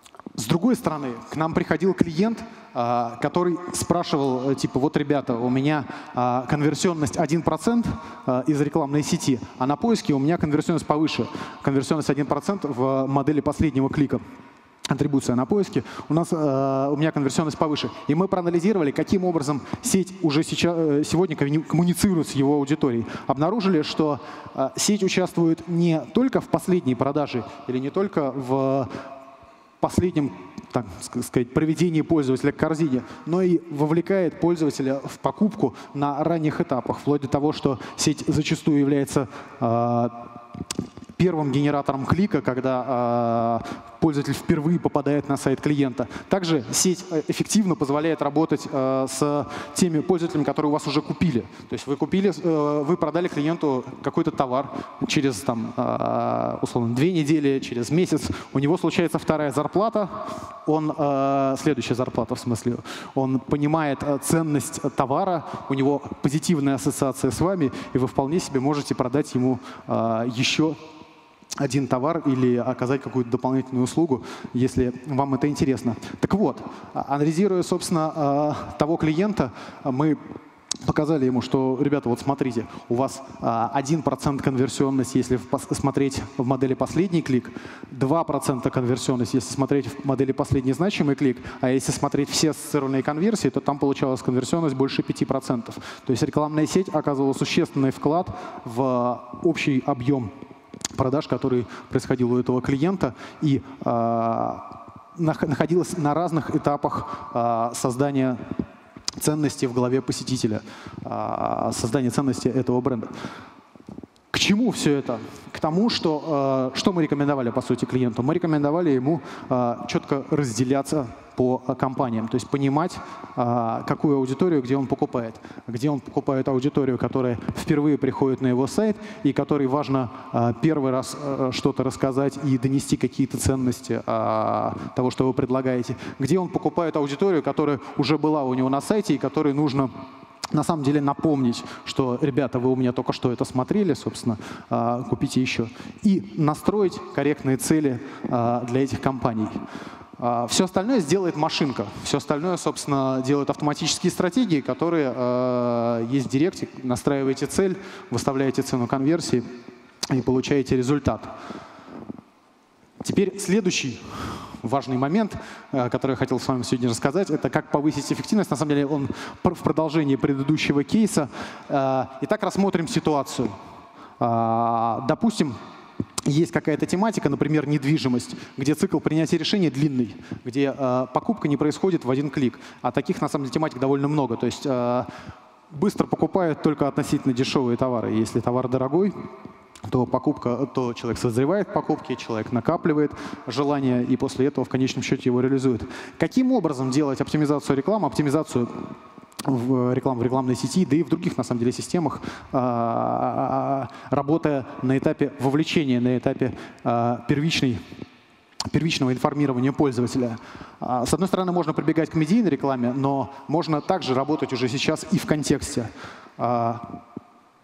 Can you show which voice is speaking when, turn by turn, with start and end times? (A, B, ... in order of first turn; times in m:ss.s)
0:00.4-0:14.2 A
0:14.9-0:28.9 A
0:29.8-0:40.3 A
0:41.2-1:10.8 A
1:11.6-1:20.2 A
1:20.8-1:40.3 A
1:40.9-1:48.4 A
1:49.2-1:53.2 A
1:54.3-2:19.9 A
2:20.5-2:29.6 A
2:30.2-2:39.4 A
2:40.1-2:41.3 A
2:43.0-2:53.5 A
2:54.2-2:55.6 A
2:56.2-3:05.1 A
3:05.7-3:09.1 A
3:09.9-3:18.7 A
3:19.4-3:27.8 A
3:28.7-3:37.0 A